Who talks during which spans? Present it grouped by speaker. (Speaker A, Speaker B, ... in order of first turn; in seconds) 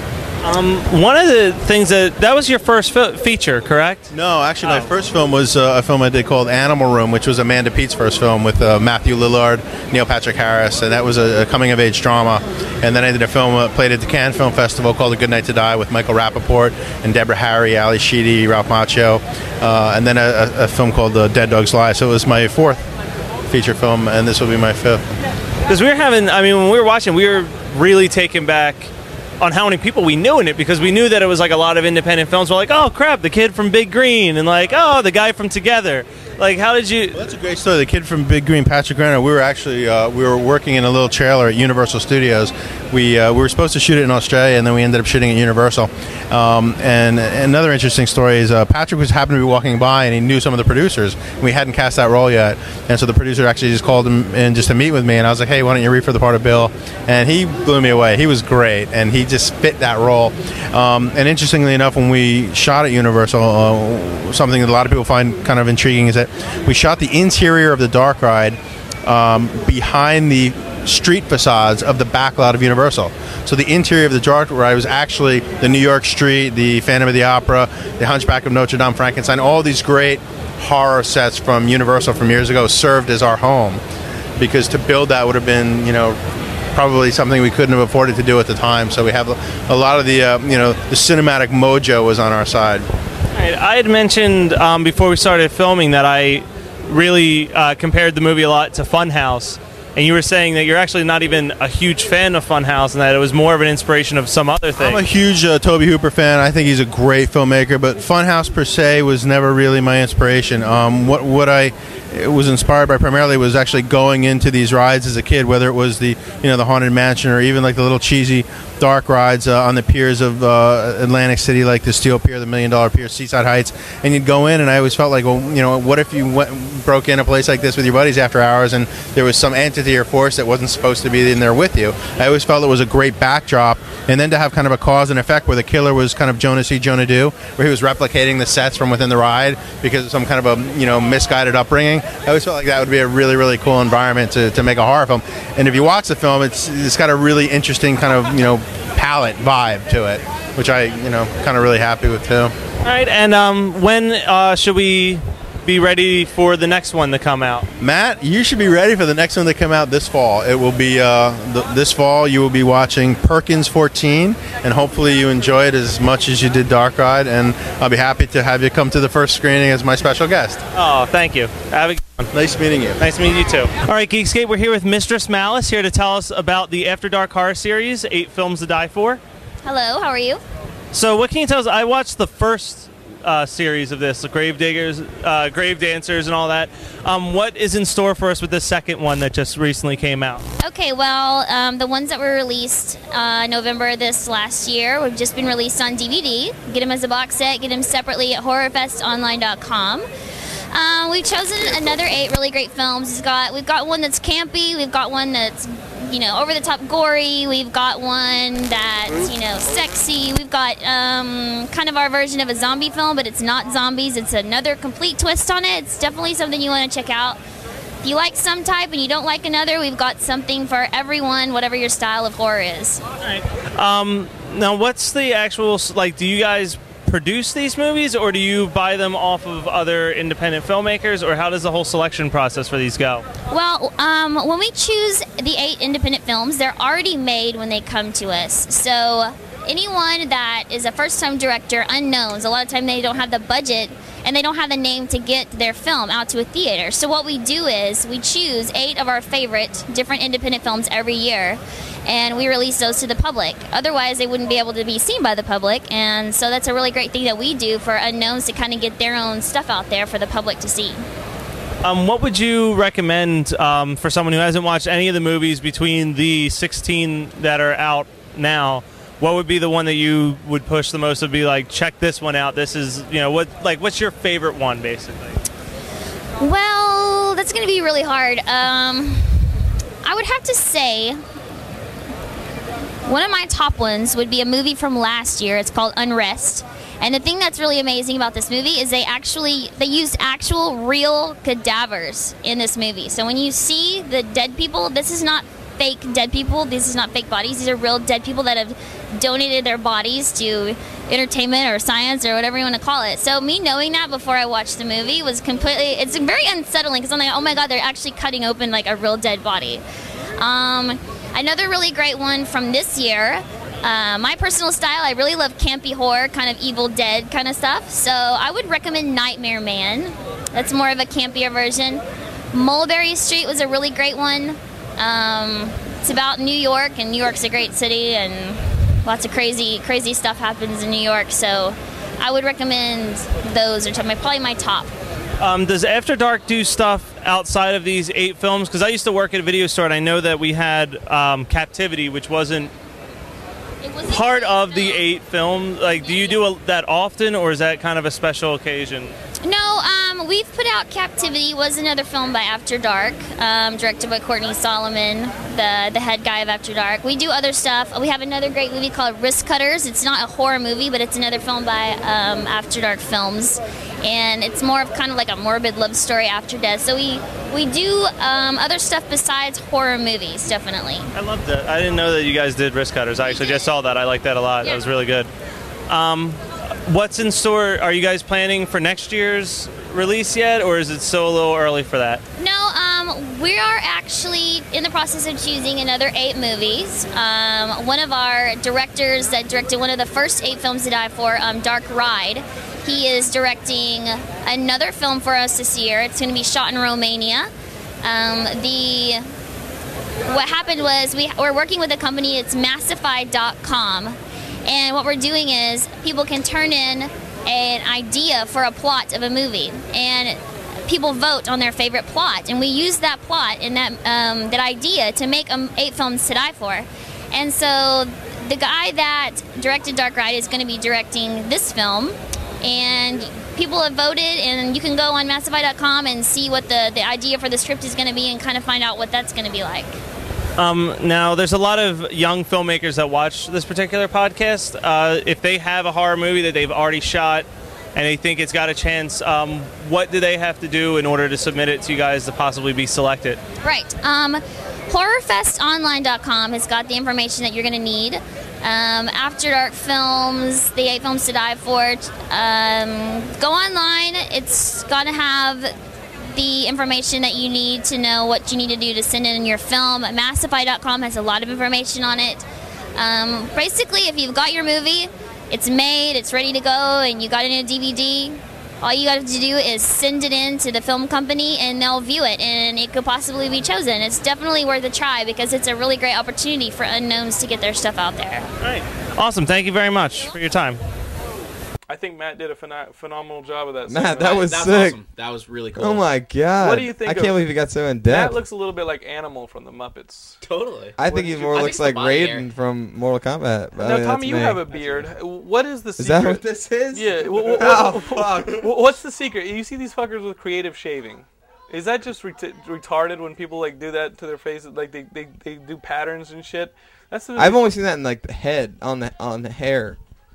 Speaker A: 0.4-4.1, 4.6-4.9, 25.7-37.3, 93.3-105.0, 152.8-157.7, 170.7-172.3, 173.0-179.2, 180.9-190.4, 223.2-233.2, 261.8-275.4, 335.4-342.7, 344.0-349.1, 371.1-375.3, 375.9-382.2, 430.6-443.4, 478.6-480.8
Speaker B: 4.1-22.8, 23.5-25.0, 37.1-83.8, 84.4-86.2, 86.7-92.9, 104.8-152.5, 157.8-170.6, 172.3-173.0
Speaker C: 179.6-180.4, 190.6-200.1, 200.7-217.4, 218.0-223.0, 233.5-261.0, 276.4-279.5, 280.0-281.2, 283.0-309.8, 310.4-334.9, 343.8-345.0, 346.0-346.4, 349.4-371.1, 382.4-397.5, 398.0-399.2, 400.2-430.0, 443.6-455.7, 456.3-462.4, 462.9-478.5
Speaker D: 481.9-484.5, 486.6-487.4, 488.0-490.4, 491.0-491.8, 493.8-507.7
Speaker E: 483.9-485.0, 485.8-488.4, 491.0-494.6, 496.0-498.7, 507.4-510.0
Speaker F: 484.3-486.0, 490.4-491.0, 491.5-492.5, 494.7-495.1